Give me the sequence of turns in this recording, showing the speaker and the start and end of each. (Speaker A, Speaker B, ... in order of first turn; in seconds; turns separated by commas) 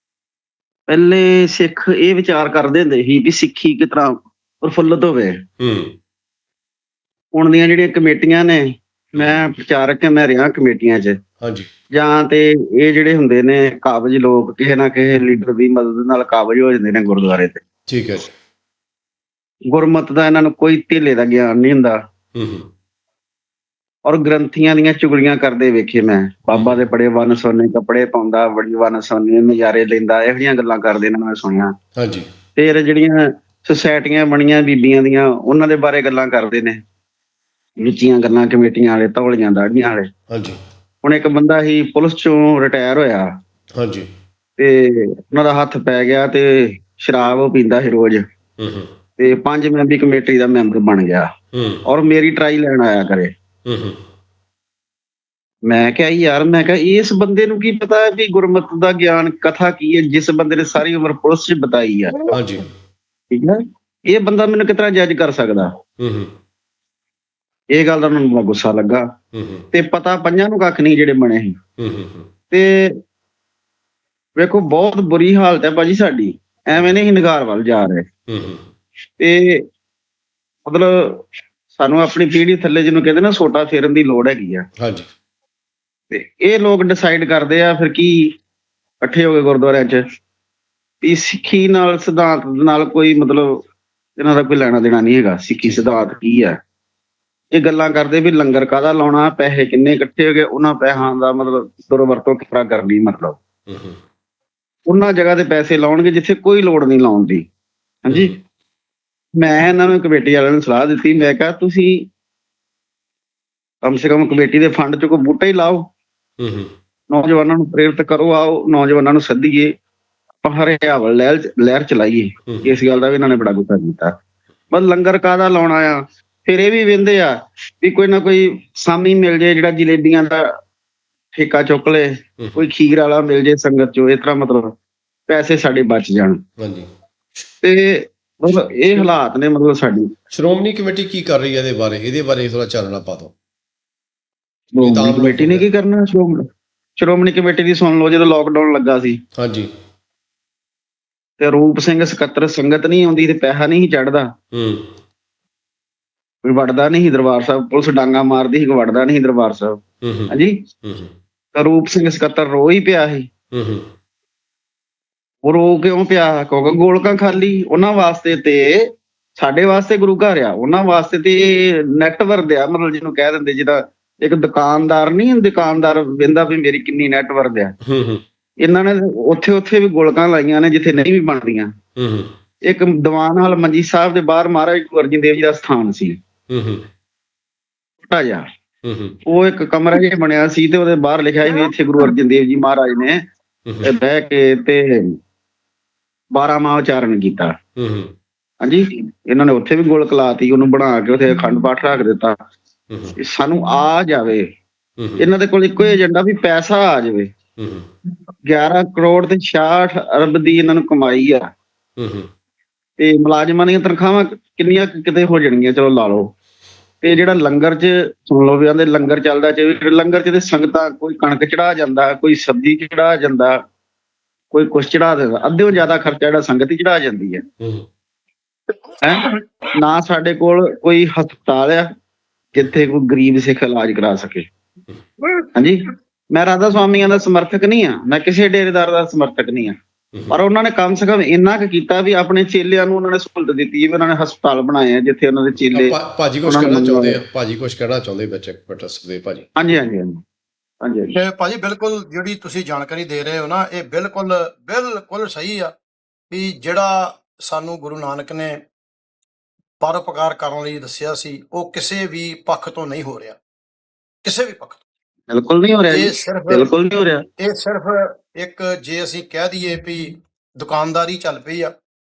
Speaker A: 0.9-5.4, Speaker B: 5.6-6.0, Speaker A: 7.3-11.2, Speaker B: 11.4-11.7, Speaker A: 11.9-17.6, Speaker B: 17.9-18.3, Speaker A: 19.7-22.0, Speaker B: 22.4-22.7, Speaker A: 24.1-31.7, Speaker B: 26.5-26.8, Speaker B: 32.0-32.3, Speaker A: 32.6-36.8, Speaker A: 37.8-40.1, Speaker B: 40.3-40.6, Speaker A: 41.0-43.3, Speaker B: 43.8-44.1, Speaker A: 44.6-48.2, Speaker B: 48.6-48.9, Speaker A: 49.2-51.3, Speaker B: 51.5-51.9, Speaker A: 51.9-53.3, Speaker B: 53.7-54.0, Speaker A: 55.7-62.3, Speaker B: 62.3-62.6, Speaker A: 63.3-65.7, Speaker B: 66.0-66.3, Speaker A: 67.7-69.0, Speaker B: 69.3-69.7, Speaker A: 69.7-71.5, Speaker B: 71.8-72.3, Speaker A: 72.5-72.9, Speaker A: 74.4-78.1, Speaker B: 78.3-78.7, Speaker A: 79.2-79.6, Speaker A: 80.7-84.7, Speaker B: 84.8-85.1, Speaker A: 86.1-88.3, Speaker A: 89.0-90.0, Speaker A: 91.0-93.6, Speaker A: 94.2-96.5, Speaker A: 97.5-103.4, Speaker B: 103.7-104.0, Speaker A: 104.9-107.5, Speaker A: 108.0-108.3, Speaker B: 108.1-108.4, Speaker A: 109.4-112.0, Speaker A: 113.8-115.8, Speaker B: 116.4-116.7, Speaker A: 117.1-119.7, Speaker A: 120.4-124.1, Speaker A: 124.7-130.5, Speaker A: 131.3-134.8, Speaker A: 135.3-136.4, Speaker B: 136.6-136.9, Speaker A: 137.6-140.1, Speaker B: 138.8-139.1, Speaker B: 140.3-143.3, Speaker A: 144.8-146.4, Speaker B: 144.8-145.7, Speaker A: 147.0-149.2, Speaker B: 149.4-149.7, Speaker A: 151.4-154.3, Speaker B: 154.5-154.9, Speaker A: 156.4-160.6, Speaker B: 160.0-160.3, Speaker B: 160.8-161.1, Speaker A: 161.5-163.3, Speaker B: 163.5-163.9, Speaker A: 165.4-177.7, Speaker B: 177.8-178.2, Speaker A: 178.6-181.7, Speaker B: 182.0-182.3, Speaker A: 182.7-186.2, Speaker B: 186.5-186.9, Speaker A: 188.0-188.4, Speaker B: 188.8-189.2, Speaker A: 189.3-193.2, Speaker A: 193.8-195.1, Speaker A: 196.3-197.6, Speaker B: 197.8-198.1, Speaker A: 198.6-202.4, Speaker B: 202.9-203.2, Speaker A: 203.2-204.4, Speaker B: 205.0-205.2, Speaker A: 205.2-207.3, Speaker B: 207.6-207.9, Speaker A: 208.5-211.5, Speaker B: 212.0-212.3, Speaker A: 213.0-216.3, Speaker A: 217.0-223.6, Speaker A: 224.5-227.4, Speaker B: 227.6-227.8, Speaker A: 229.0-231.9, Speaker A: 232.5-234.5, Speaker A: 236.3-239.8, Speaker A: 240.3-247.2, Speaker B: 245.7-249.5, Speaker A: 249.6-250.2, Speaker A: 250.8-251.1, Speaker C: 251.2-255.7, Speaker C: 256.3-258.6, Speaker C: 259.8-263.4, Speaker C: 264.2-264.8, Speaker A: 265.3-267.2, Speaker C: 265.9-266.7, Speaker C: 267.4-271.7